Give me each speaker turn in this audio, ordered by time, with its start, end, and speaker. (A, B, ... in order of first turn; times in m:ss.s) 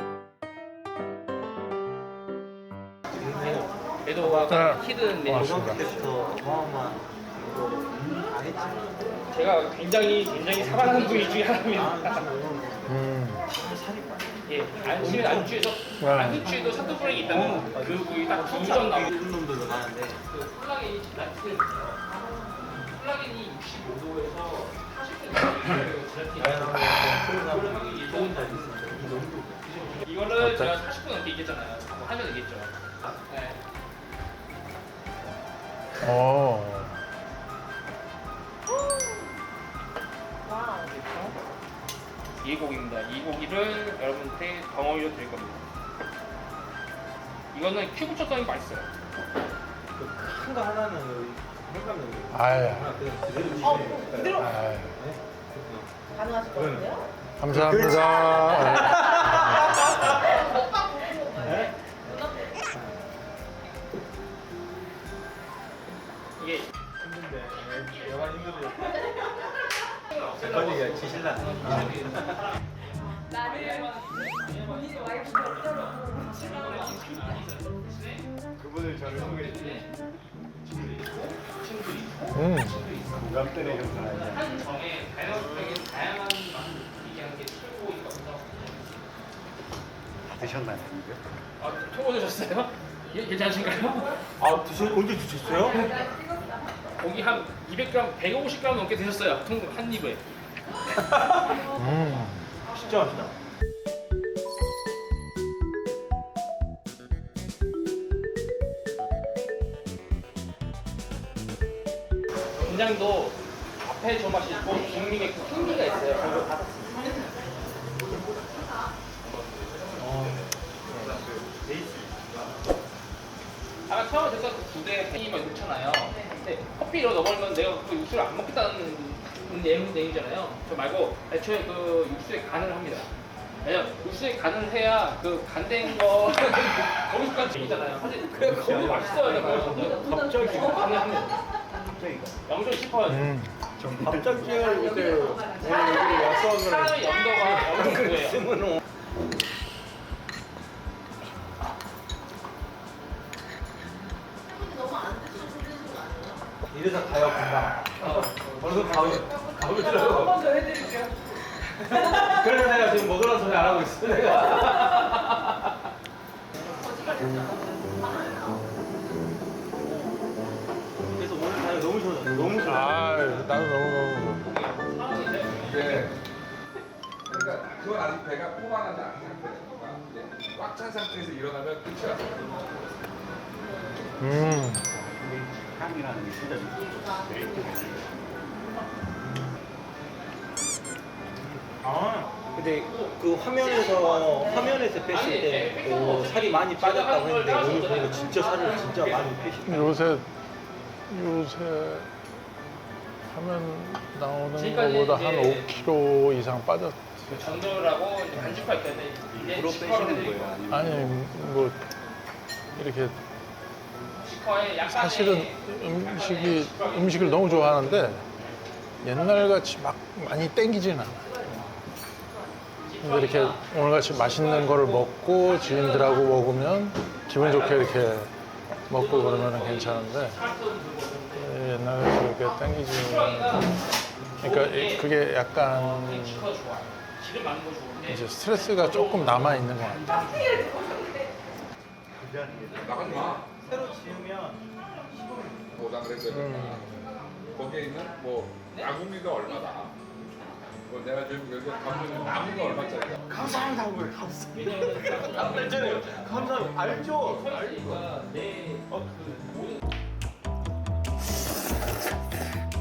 0:03.1-0:04.7 A
0:04.0-0:06.0 B
0:04.5-0:05.8 C
0:05.3-0:09.3 A
0:09.3-0:12.2 B
0:10.5-0:15.5 A
0:12.8-0:13.4 C
0:14.4-0:19.1 B
0:16.0-0:16.5 C
0:16.5-0:20.2 A
0:20.2-0:22.0 B
0:22.6-0:33.6 B
0:26.3-0:29.6 A
0:30.4-0:30.7 C
0:36.0-0:37.0 C
0:40.7-0:41.3 B
0:42.4-0:45.6 B
0:47.5-0:48.9 B
0:50.0-0:55.9 A
0:52.3-0:52.9 C
0:53.6-0:54.4 D
0:54.3-0:55.0 C
0:56.1-0:57.0 D
0:56.5-1:00.1 A
0:57.4-1:00.1 C
1:00.3-1:02.6 D
1:01.4-1:01.7 A
1:06.4-1:06.6 B
1:07.0-1:09.2 A
1:10.0-1:18.3 B
1:10.4-1:12.4 A
1:18.6-1:19.9 A
1:19.0-1:28.9 B
1:22.3-1:22.8 C
1:23.1-1:24.5 E
1:30.2-1:31.2 E
1:31.6-1:34.2 B
1:34.4-1:35.8 A
1:35.6-1:36.1 B
1:35.7-1:36.9 D
1:37.0-1:40.2 B
1:41.0-1:41.6 A
1:41.6-1:42.6 C
1:42.6-1:43.3 A
1:52.6-1:56.5 B
1:54.9-1:57.4 D
1:56.2-1:56.8 A
1:58.5-1:58.8 D
1:59.2-2:01.2 B
1:59.9-2:02.5 A
2:03.9-2:13.1 B
2:13.6-2:21.4 B
2:18.3-2:20.0 A
2:18.4-2:19.1 E
2:19.8-2:21.0 D
2:19.8-2:20.8 E
2:22.0-2:22.3 E
2:22.5-2:23.3 B
2:23.1-2:23.6 C
2:23.8-2:24.5 E
2:24.0-2:28.8 A
2:24.6-2:26.0 D
2:25.7-2:28.4 B
2:34.5-2:36.4 D
2:36.7-2:40.5 A
2:38.0-2:39.4 B
2:40.0-2:41.1 D
2:41.7-2:45.2 A
2:46.8-2:48.5 D
2:51.1-2:53.4 A
2:52.6-2:54.5 C
2:54.4-2:56.0 B
2:55.5-2:56.2 F
2:57.3-3:02.4 F
3:04.2-3:04.8 C
3:04.3-3:08.1 E
3:07.0-3:07.4 D
3:11.5-3:19.9 A
3:13.6-3:14.8 D
3:15.1-3:19.6 B
3:19.6-3:20.3 C
3:21.1-3:22.1 C
3:23.3-3:27.5 C
3:24.5-3:25.7 B
3:27.3-3:30.6 B
3:29.3-3:31.3 E
3:30.7-3:31.8 C
3:32.8-3:33.1 C
3:34.1-3:38.3 B
3:34.8-3:38.2 C
3:39.0-3:41.2 C
3:42.8-3:46.4 B
3:43.0-3:48.3 C
3:47.3-3:48.0 B
3:48.9-3:50.4 C
3:48.9-3:51.5 B
3:51.3-3:53.6 C
3:52.9-3:53.8 B
3:54.4-3:56.4 C
3:54.4-3:55.1 B
3:55.6-4:00.9 B
3:58.0-4:00.5 C
4:00.6-4:01.2 D
4:02.1-4:05.6 A
4:02.6-4:03.9 B
4:02.8-4:03.5 F
4:05.7-4:10.0 F
4:06.3-4:07.1 C
4:08.7-4:09.9 B
4:10.8-4:13.2 F
4:13.1-4:17.5 A
4:14.5-4:19.8 B
4:17.4-4:18.0 F
4:18.9-4:19.3 A